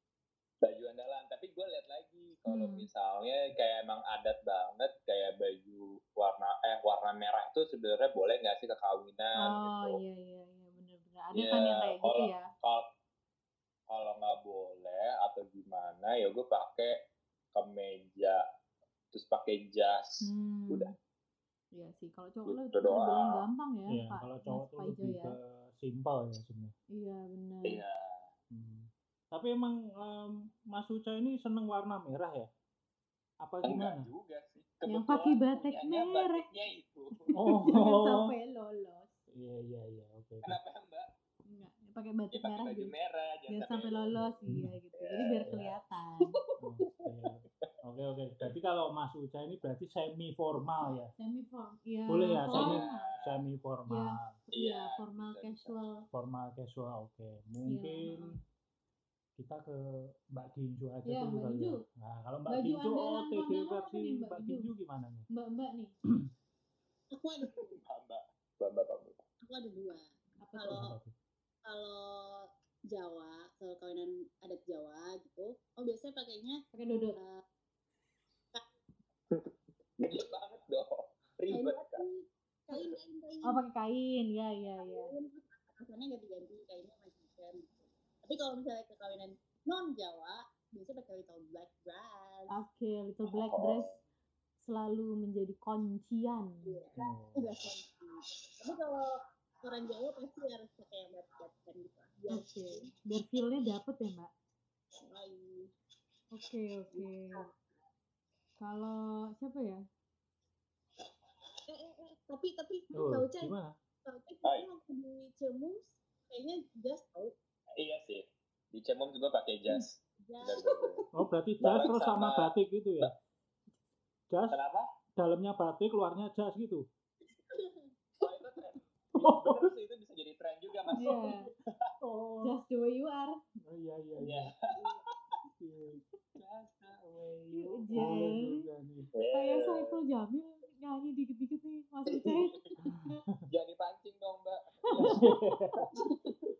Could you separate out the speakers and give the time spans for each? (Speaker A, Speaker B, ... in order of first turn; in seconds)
Speaker A: 0.6-10.0, 11.3-12.8, 13.9-17.0, 17.5-18.4, 19.1-20.9, 22.5-23.4, 27.6-28.3, 33.6-37.3, 40.4-41.1, 42.3-44.2, 45.0-45.6, 52.5-53.4, 54.5-55.8, 67.4-69.2, 79.3-82.0, 82.7-83.0, 93.3-94.0, 117.8-121.0, 121.6-122.5, 124.5-124.9, 128.2-131.9, 134.2-135.0, 136.4-137.9, 139.1-140.0, 142.1-142.6, 143.5-145.3
Speaker B: 2.5-2.9, 9.4-12.5, 20.2-20.9, 21.7-25.3, 26.9-27.8, 34.9-36.5, 37.2-39.1, 41.5-42.9, 43.5-46.4, 51.2-53.1, 53.9-56.0, 57.7-58.4, 61.0-61.8, 62.5-64.7, 65.3-65.9, 70.4-70.8, 76.7-77.2, 83.4-85.1, 92.5-93.9, 94.6-96.5, 102.3-104.3, 106.3-107.5, 108.6-109.8, 130.9-131.5, 132.4-133.4, 137.5-138.7, 139.3-143.2, 144.9-145.3
Speaker C: 23.9-26.7, 28.5-32.5, 33.4-34.1, 37.3-38.3, 39.3-40.6, 44.1-44.7, 45.5-45.7, 46.6-51.1, 52.1-54.4, 56.1-58.4, 59.4-65.3, 70.7-71.1, 96.9-97.7, 112.9-113.8, 121.1-123.1, 124.3-124.6, 125.2-126.8, 129.1-129.7, 132.0-132.6, 133.7-134.5, 135.6-136.0, 137.9-139.1, 142.8-143.5, 145.0-145.9
Speaker D: 67.1-67.8, 69.4-70.0, 70.5-70.9, 71.7-76.6, 77.2-77.4, 81.5-83.6, 84.8-92.5, 96.6-99.1, 99.6-102.9, 105.1-105.7, 106.9-107.5, 111.7-113.5, 114.0-117.3, 120.3-121.0, 127.5-127.8